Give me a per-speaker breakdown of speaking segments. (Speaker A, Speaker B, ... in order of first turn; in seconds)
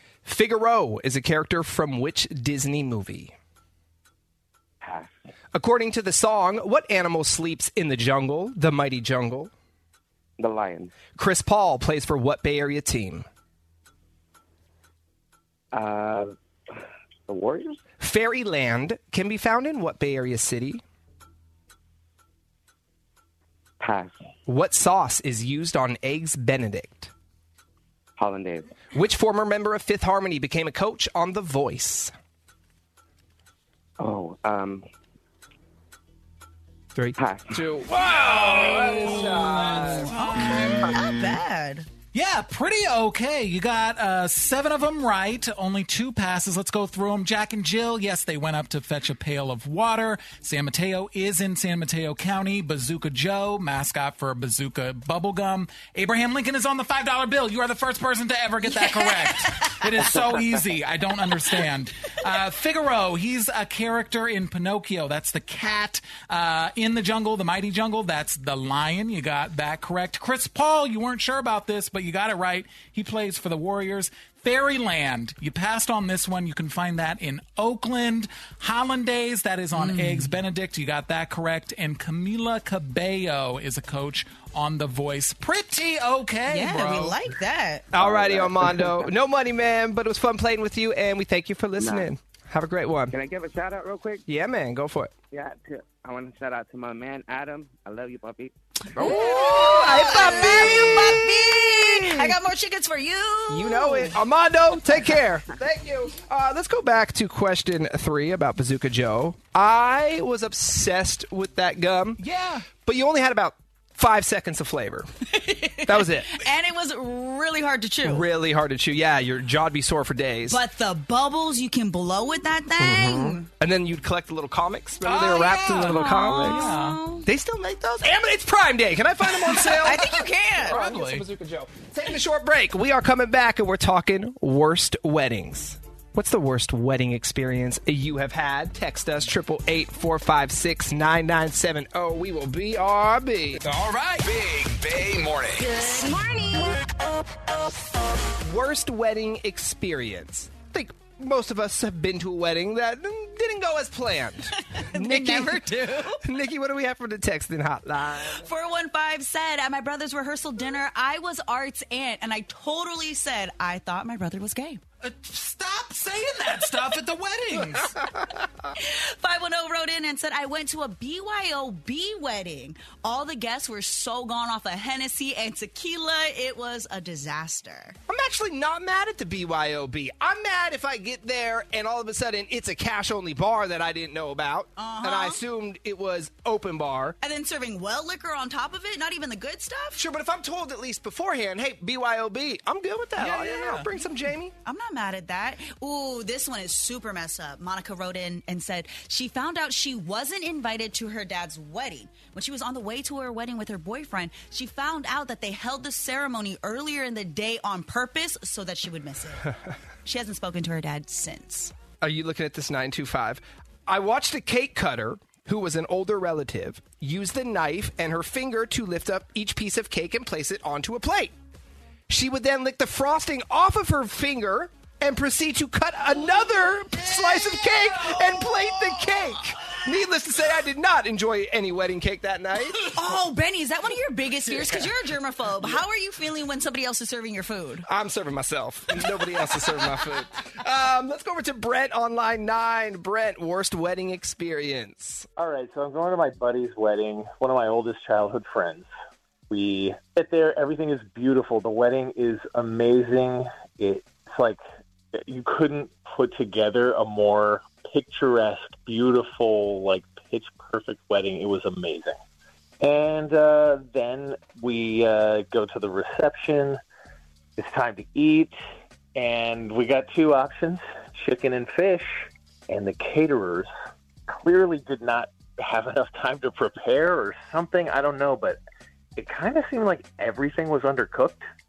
Speaker A: 0.2-3.3, 5.5-9.5, 11.2-13.3, 18.0-20.8, 24.5-27.1, 28.9-32.1, 37.0-40.1, 87.9-93.2, 94.3-95.1, 99.0-102.4, 103.5-112.2, 112.8-115.1, 115.8-116.3, 118.0-120.6, 122.8-126.7, 127.3-143.6, 148.4-158.5, 178.1-187.2, 190.0-194.5, 212.0-221.3, 222.1-233.0, 237.9-245.3
Speaker B: 4.8-5.1, 10.4-10.9, 15.7-17.8, 23.8-24.2, 28.2-28.7, 34.0-34.9, 37.2-37.6, 88.0-89.0, 91.8-92.1, 93.1-94.2, 95.3-100.6
Speaker C: 38.1-41.0, 42.1-87.2, 112.2-112.7, 125.0-127.0, 130.7-131.2, 165.0-168.0, 193.2-193.9, 227.1-229.0
Speaker D: 38.8-41.9, 58.7-60.1, 79.8-80.4, 86.5-88.0, 99.0-104.1, 115.3-118.3, 120.5-123.5, 125.9-127.3, 129.6-130.8, 145.6-146.7, 154.7-156.2, 158.3-164.8, 168.8-178.0, 184.8-185.4, 187.2-190.0, 194.6-209.5, 210.1-211.7, 232.9-237.9
Speaker E: 143.7-145.8
Speaker F: 245.4-248.9, 249.5-254.6, 255.2-262.2, 262.8-266.8, 267.6-268.6, 269.1-273.7, 274.3-278.6, 279.2-281.4